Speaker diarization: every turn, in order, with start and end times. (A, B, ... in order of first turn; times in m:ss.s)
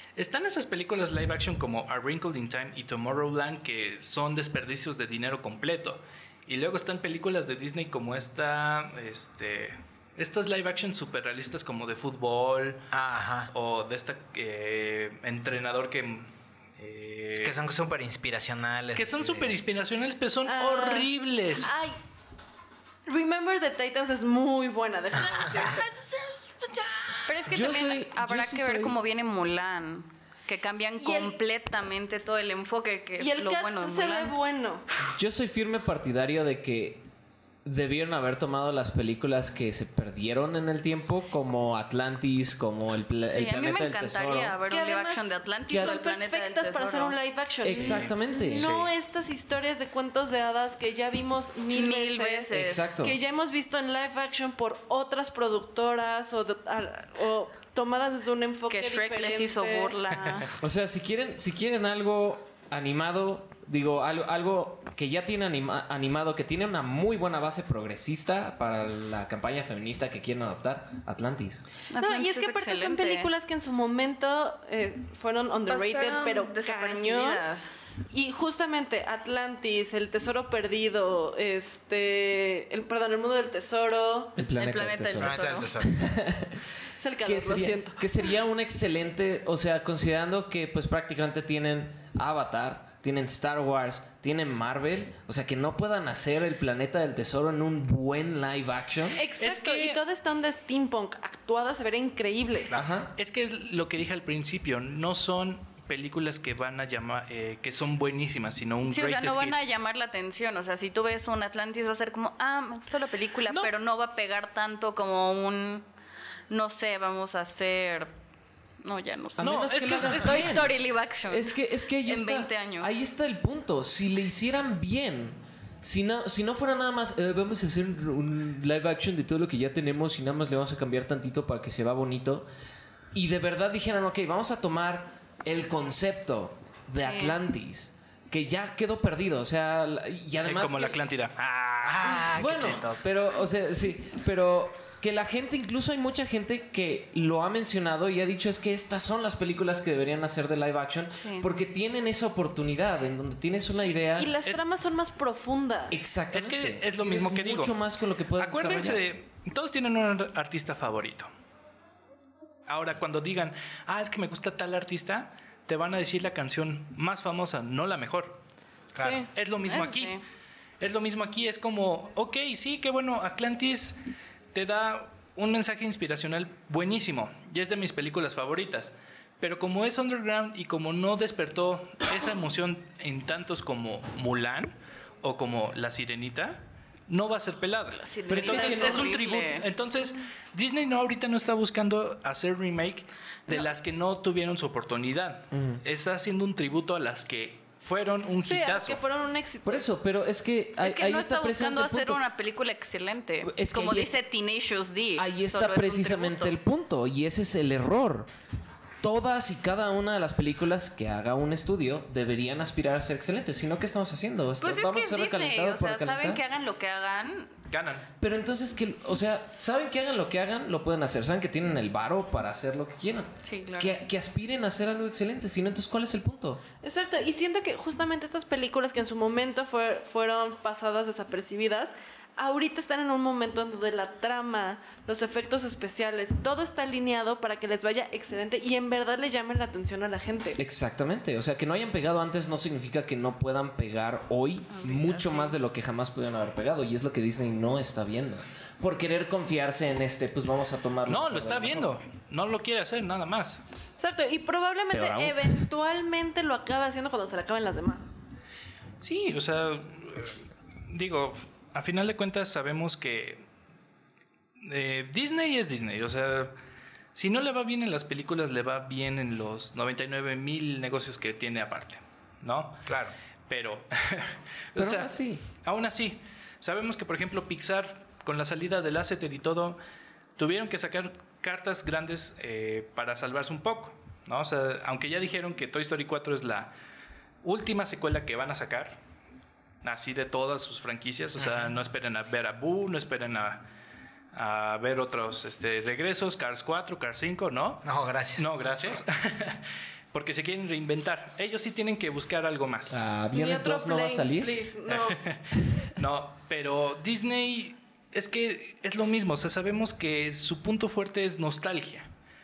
0:00.2-0:12.9 A
0:12.9-0:13.5 B
0:13.5-0:17.6 A
0:17.3-0:19.5 B
0:19.0-0:21.7 A
0:20.5-0:22.0 C
0:23.1-0:25.9 C
0:27.3-0:34.4 D
0:27.5-0:29.0 E
0:31.0-0:31.4 C
0:33.2-0:34.9 C
0:35.1-0:37.0 E
0:37.6-0:44.6 E
0:43.2-0:47.2 D
0:44.7-1:00.0 C
0:45.7-0:45.9 E
0:47.6-0:48.7 E
0:47.7-0:48.9 A
0:51.7-0:52.9 D
0:52.5-0:53.2 E
0:58.7-1:00.5 D
1:00.6-1:11.7 E
1:11.9-1:13.3 D
1:12.0-1:17.6 C
1:15.7-1:17.7 D
1:18.1-1:24.4 C
1:24.4-1:26.6 E
1:24.5-1:25.8 D
1:25.2-1:25.9 B
1:27.0-1:28.2 C
1:27.2-1:39.2 E
1:39.2-1:42.7 C
1:39.4-1:40.0 A
1:42.7-1:43.1 E
1:43.2-1:49.7 A
1:48.9-1:55.9 D
1:56.5-1:58.1 D
1:58.8-2:02.9 D
1:59.4-2:00.8 E
1:59.4-2:00.5 A
2:01.3-2:12.4 E
2:13.1-2:21.1 E
2:17.0-2:17.4 D
2:20.4-2:22.3 A
2:21.8-2:23.0 B
2:22.1-2:34.3 E
2:31.2-2:31.5 D
2:34.2-2:36.0 C
2:35.9-2:39.0 E
2:36.3-2:37.8 A
2:38.4-2:41.3 A
2:42.7-2:48.4 A
2:48.9-2:49.3 B
2:49.0-2:49.3 C
2:49.4-2:50.2 A
2:49.6-2:50.2 D
2:50.8-2:54.0 A
2:54.5-3:19.0 A
3:08.0-3:09.7 D
3:08.3-3:09.1 E
3:15.5-3:15.8 E
3:18.5-3:19.8 C
3:19.6-3:22.2 E
3:20.8-3:26.6 D
3:23.4-3:24.2 E
3:25.2-3:28.3 E
3:29.0-3:36.4 E
3:34.6-3:37.5 D
3:37.7-3:38.1 A
3:38.2-3:46.6 E
3:43.4-3:44.0 D
3:46.8-4:00.6 C
4:00.6-4:12.0 E
4:04.7-4:05.6 D
4:11.1-4:13.6 A
4:14.0-4:18.1 C
4:14.9-4:15.6 E
4:19.0-4:23.5 A
4:24.6-4:26.5 A
4:27.2-4:32.8 A
4:32.9-4:33.2 B
4:33.5-4:39.8 A
4:34.8-4:35.4 E
4:40.4-4:46.7 A
4:47.4-4:49.0 A
4:49.8-4:53.6 A
4:51.4-4:51.8 B
4:54.3-5:03.0 A
4:57.8-4:58.5 B
5:02.9-5:04.5 E
5:03.3-5:05.2 C
5:04.9-5:12.1 A